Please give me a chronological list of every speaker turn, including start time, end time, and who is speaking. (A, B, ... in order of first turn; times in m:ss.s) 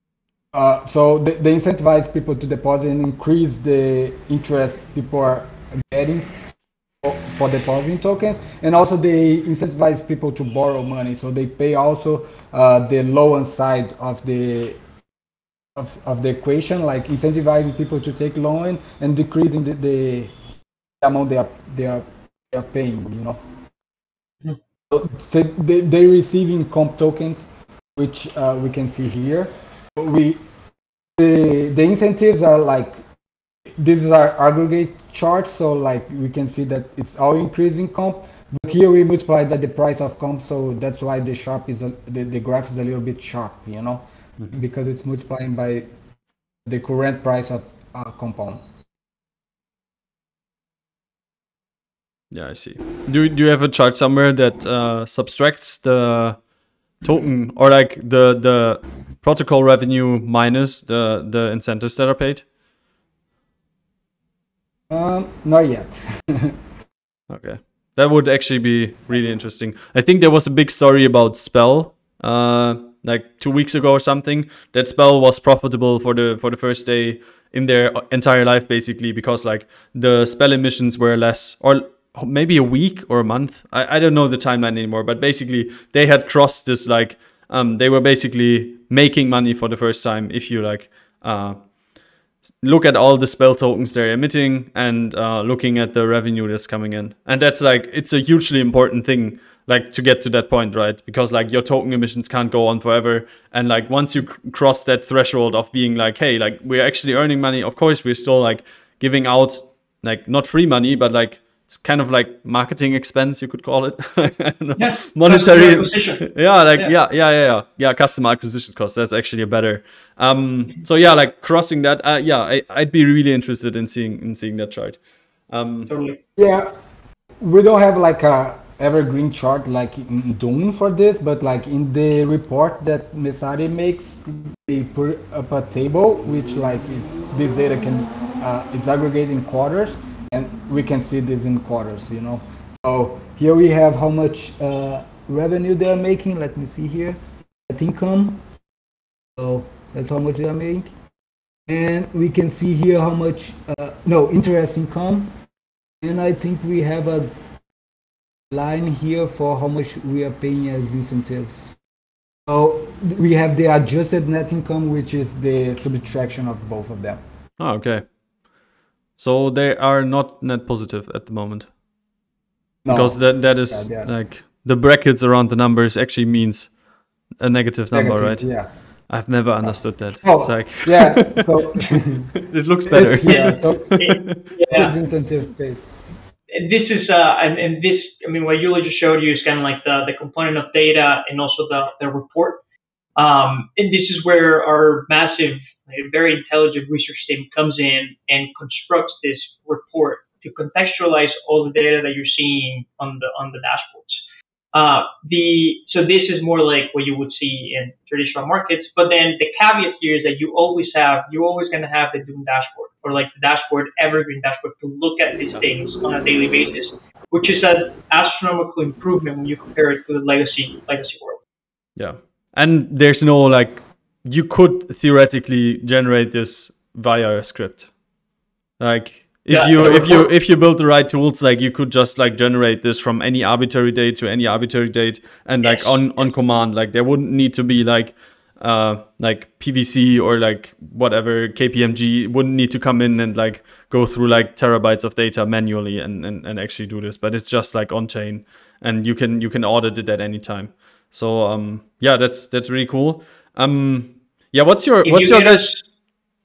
0:00.5-0:06.3 A
0:07.0-0:14.8 A
0:15.8-0:20.3 A
0:21.0-0:23.4 A
0:24.9-0:30.4 A
0:31.2-0:33.0 A
0:33.7-0:45.9 A
0:46.7-0:48.6 A
0:52.3-0:56.4 B
0:57.0-1:02.5 B
1:04.9-1:06.6 A
1:07.3-1:31.6 B
1:32.6-2:05.9 B
1:54.8-1:56.9 C
2:05.9-2:06.2 C
2:06.4-2:06.7 A
2:07.4-2:28.4 A
2:29.4-2:30.9 A
2:31.7-2:35.3 A
2:36.0-2:37.3 A
2:38.5-2:41.8 A
2:42.5-2:47.2 A
2:47.6-2:48.1 B
2:49.2-2:51.7 B
2:52.8-2:54.1 A
2:52.9-2:56.8 B
2:57.4-2:58.5 B
2:57.9-2:58.7 A
2:59.1-3:04.6 B
3:00.2-3:02.3 A
3:02.9-3:05.8 A
3:03.3-3:04.9 C
3:06.5-3:12.6 C
3:13.2-3:24.2 C
3:24.7-3:41.4 C
3:42.0-3:47.9 B
3:48.8-4:15.7 B
3:49.5-3:50.2 C
3:55.6-3:56.3 C
4:15.0-4:15.8 C